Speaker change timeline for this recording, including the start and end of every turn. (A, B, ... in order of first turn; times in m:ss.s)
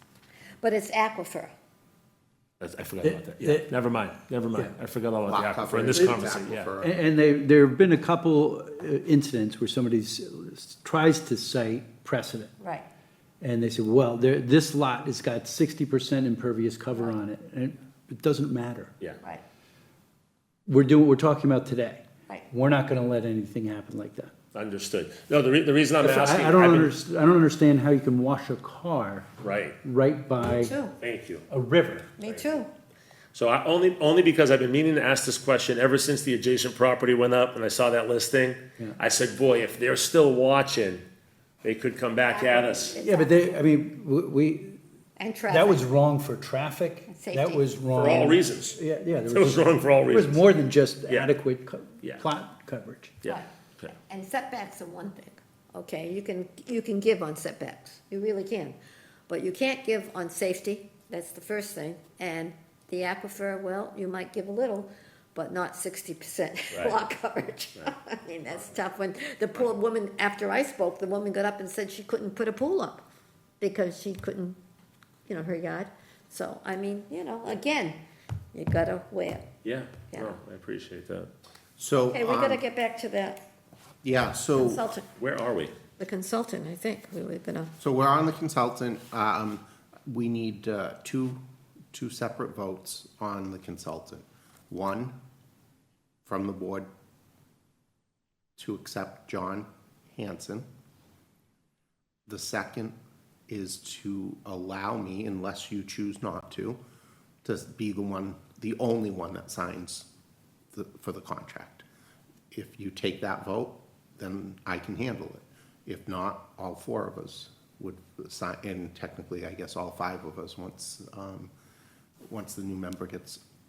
0:00.6-0:01.5 A
0:02.6-0:06.7 B
0:03.0-0:03.7 C
0:05.2-0:07.0 D
0:06.8-0:12.5 C
0:12.6-0:12.9 A
0:13.4-0:18.9 C
0:20.7-0:24.3 C
0:24.5-0:26.9 B
0:26.0-0:29.3 C
0:29.4-0:29.8 B
0:29.8-0:30.8 C
0:30.4-0:30.9 A
0:31.0-0:31.4 B
0:31.5-0:32.1 C
0:32.2-0:32.7 A
0:32.2-0:32.6 B
0:33.3-0:41.0 B
0:41.6-0:43.0 B
0:42.3-0:43.5 A
0:43.0-0:44.8 C
0:45.2-0:45.8 A
0:45.5-0:53.2 C
0:47.1-0:48.0 A
0:47.9-0:50.5 B
0:51.1-0:51.3 B
0:53.2-0:53.9 B
0:54.1-0:58.8 A
0:59.3-1:13.0 A
1:06.7-1:07.0 B
1:13.6-1:14.6 A
1:15.3-1:18.0 A
1:18.5-1:19.4 A
1:19.6-1:21.3 B
1:21.8-1:22.6 D
1:22.1-1:23.4 A
1:24.0-1:24.8 D
1:24.6-1:25.1 A
1:25.2-1:25.8 B
1:26.0-1:27.7 A
1:27.8-1:31.4 D
1:31.9-1:35.1 D
1:36.2-1:36.9 D
1:38.6-1:40.7 D
1:42.3-1:42.9 D
1:43.5-1:46.8 D
1:47.4-1:50.0 D
1:50.7-1:51.8 D
1:52.5-2:01.5 D
2:02.3-2:03.4 D